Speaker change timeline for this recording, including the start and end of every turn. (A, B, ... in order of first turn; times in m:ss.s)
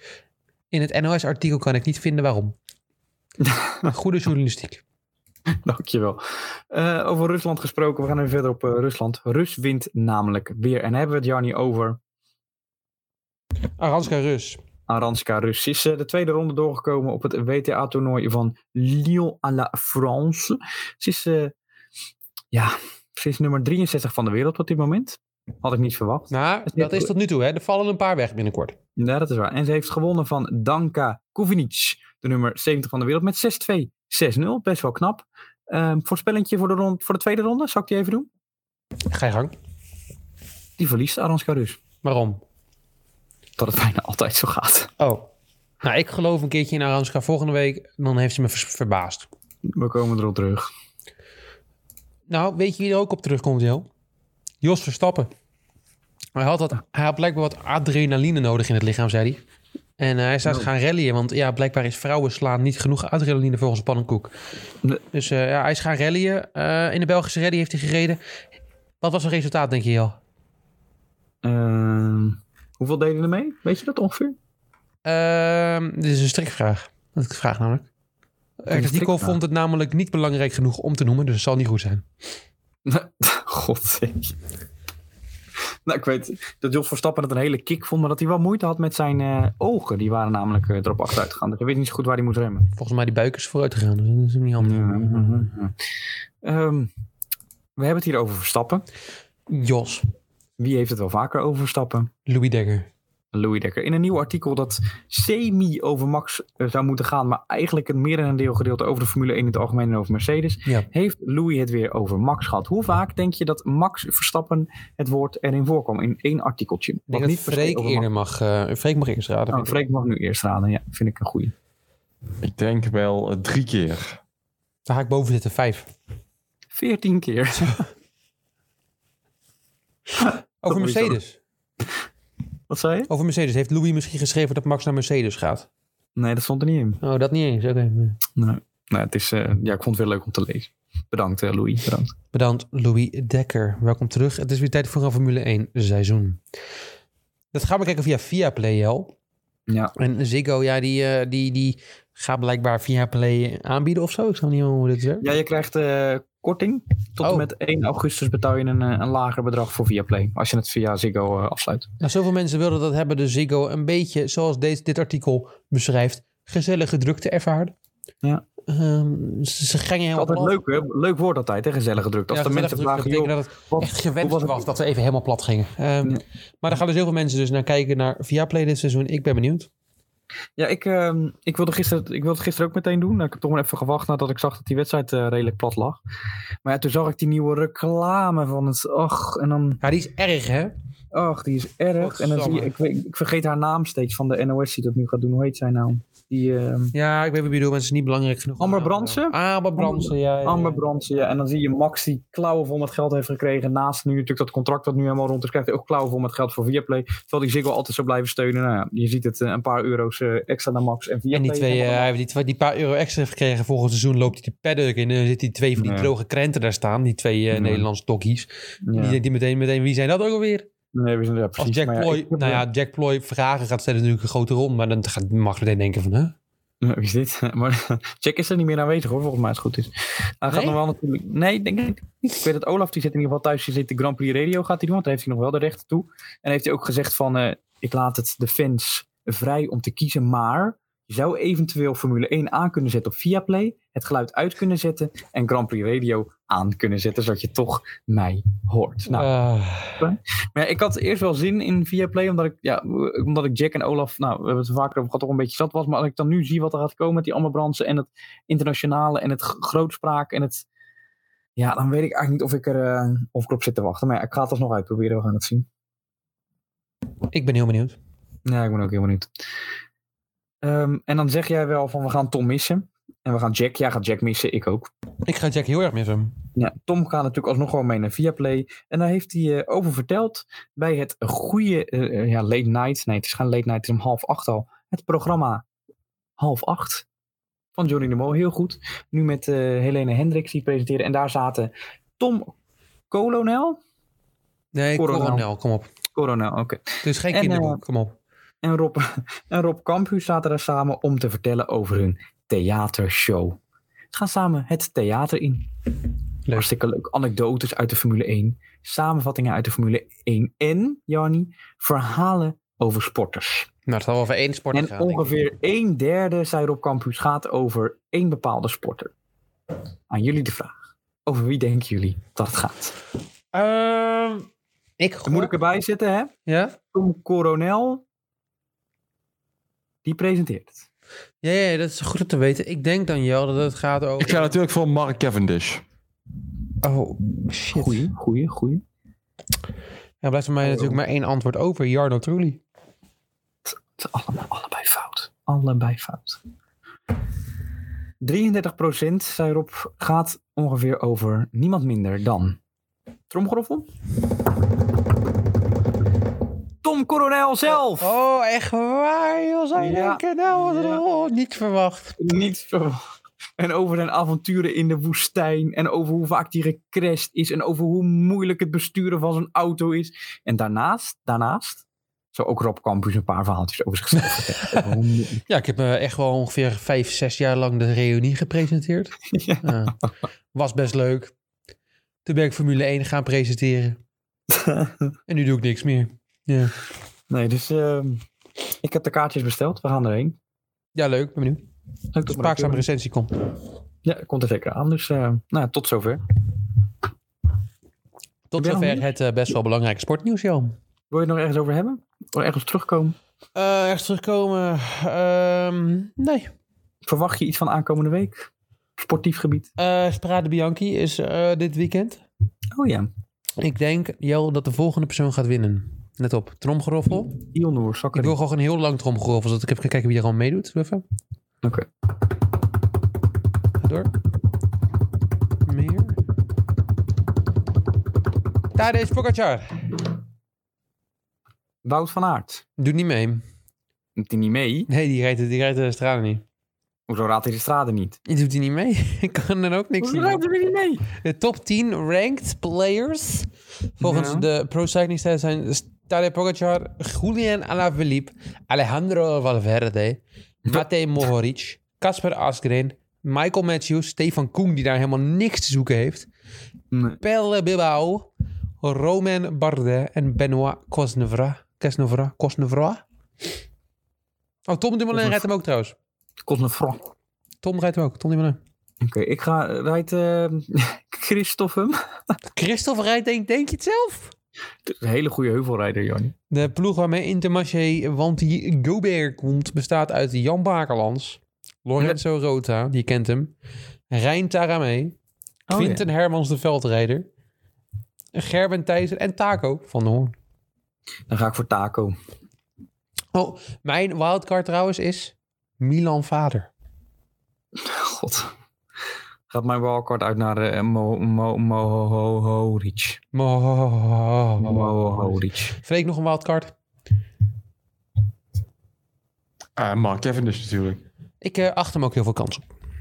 0:00.7-0:02.6 A
0:03.4-0:03.9 B
0:03.9-0:04.8 A
0:05.6-0:12.0 B
0:13.8-0:14.6 A
0:14.9-0:21.5 B
0:22.5-0:27.1 B
0:26.3-0:28.8 A
0:29.0-0:38.3 B
0:39.1-0:39.5 A
0:40.8-0:41.8 B
0:42.0-0:42.4 A
0:43.6-0:44.9 B
0:45.0-0:45.3 A
0:45.8-0:49.3 A
0:49.7-0:50.7 B
0:52.3-0:53.9 A
0:54.6-0:55.3 A
0:56.3-0:59.4 A
1:00.0-1:04.3 A
1:05.1-1:08.2 A
1:09.0-1:10.2 A
1:11.4-1:14.4 B
1:15.0-1:17.9 A
1:18.6-1:22.0 A
1:18.7-1:19.4 B
1:22.8-1:24.3 B
1:25.8-1:32.7 B
1:32.8-1:35.5 A
1:34.6-1:35.8 B
1:36.4-1:36.9 B
1:37.8-1:38.8 B
1:39.5-1:40.0 A
1:40.6-1:42.1 B
1:42.2-1:42.9 A
1:43.3-1:58.1 B
1:57.1-1:59.8 A
1:59.5-2:01.5 B
2:02.4-2:04.2 C
2:04.9-2:05.9 A
2:06.7-2:07.8 B
2:10.2-2:11.2 B
2:10.6-2:11.4 A
2:12.7-2:13.1 B
2:13.1-2:15.7 A
2:16.2-2:17.0 B
2:17.0-2:18.2 A
2:18.3-2:22.1 B
2:22.3-2:26.4 A
2:27.5-2:29.1 A
2:29.7-2:29.9 B
2:30.0-2:35.2 A
2:35.2-2:41.9 B
2:37.2-2:37.5 A
2:42.0-2:47.7 A
2:48.7-2:50.6 A
2:50.2-2:54.6 B
2:52.3-2:59.7 A
3:00.6-3:06.0 B
3:06.6-3:09.8 B
3:09.8-3:10.7 A
3:11.1-3:16.9 B
3:12.0-3:12.7 A
3:16.9-3:20.8 A
3:18.6-3:32.1 B
3:31.3-3:40.7 A
3:35.8-3:36.1 B
3:37.5-3:37.8 B
3:38.8-3:39.2 B
3:40.9-3:42.6 B
3:41.6-3:46.3 A
3:46.8-4:09.3 B
3:50.5-3:50.8 A
4:09.1-4:10.0 A
4:10.0-4:20.6 B
4:21.6-4:25.7 B
4:27.3-4:28.0 A
4:28.4-4:29.3 B
4:30.6-4:34.9 B
4:35.2-4:36.4 A
4:36.5-4:45.7 B
4:46.4-4:47.0 B
4:47.8-4:52.5 B
4:53.1-4:53.8 B
4:54.7-4:55.9 A
4:54.9-4:55.5 B
4:56.1-4:57.8 B
4:57.0-4:58.2 A
4:58.6-5:03.6 B
5:04.1-5:05.7 B
5:06.5-5:13.7 B
5:13.8-5:15.3 A
5:14.7-5:19.1 B
5:20.1-5:22.9 B
5:23.5-5:24.5 A
5:25.0-5:25.5 A
5:25.2-5:26.3 B
5:26.4-5:26.8 A
5:26.9-5:28.0 B
5:30.0-5:30.8 B
5:31.4-5:34.5 A
5:34.2-5:35.8 C
5:36.8-5:38.1 A
5:37.7-5:38.8 B
5:40.2-5:42.6 A
5:40.6-5:41.0 B
5:43.6-5:46.4 B
5:48.2-5:52.6 B
5:53.3-5:53.9 B
5:56.8-5:58.1 B
5:57.8-6:02.2 A
5:59.7-6:01.0 B
6:02.2-6:03.0 B
6:03.6-6:15.4 B
6:14.6-6:14.9 A
6:15.5-6:20.0 A
6:19.3-6:19.9 B
6:20.5-6:21.3 A
6:22.2-6:24.0 A
6:24.5-6:25.1 B
6:25.3-6:26.8 A
6:27.3-6:28.2 B
6:28.8-6:30.4 B
6:30.9-6:31.6 A
6:32.1-6:32.8 B
6:32.2-6:33.3 A
6:34.0-6:36.2 B
6:38.5-6:40.7 A
6:38.6-6:39.1 B
6:41.1-6:43.2 B
6:43.5-6:46.5 A
6:47.0-6:49.7 B
6:49.8-6:52.2 A
6:52.7-6:53.1 B
6:53.6-6:57.4 A
6:57.1-6:58.3 B
6:58.1-7:01.0 A
7:01.6-7:01.9 B
7:03.8-7:04.1 A
7:05.6-7:06.2 A
7:08.7-7:09.7 A
7:11.8-7:12.6 B
7:12.8-7:13.4 A
7:14.2-7:14.9 B
7:14.9-7:16.4 A
7:17.1-7:18.2 B
7:18.2-7:20.4 A
7:20.0-7:21.0 B
7:21.1-7:36.3 A
7:24.0-7:24.5 B
7:36.9-7:37.2 B
7:37.2-7:38.3 A
7:38.8-7:43.0 A
7:44.7-7:46.0 A
7:45.1-7:45.4 B
7:46.4-7:47.1 B
7:47.6-7:48.6 A
7:49.0-7:52.0 B
7:52.5-7:54.3 A
7:54.8-7:56.3 B
7:56.5-8:03.5 A
8:04.1-8:05.2 A
8:05.7-8:06.0 B
8:05.7-8:07.3 A
8:08.3-8:10.3 A
8:11.3-8:12.1 B
8:13.3-8:16.7 A
8:17.7-8:18.5 B
8:19.5-8:23.2 B
8:23.3-8:26.7 A
8:24.6-8:25.7 B
8:29.8-8:31.0 C
8:31.4-8:32.7 A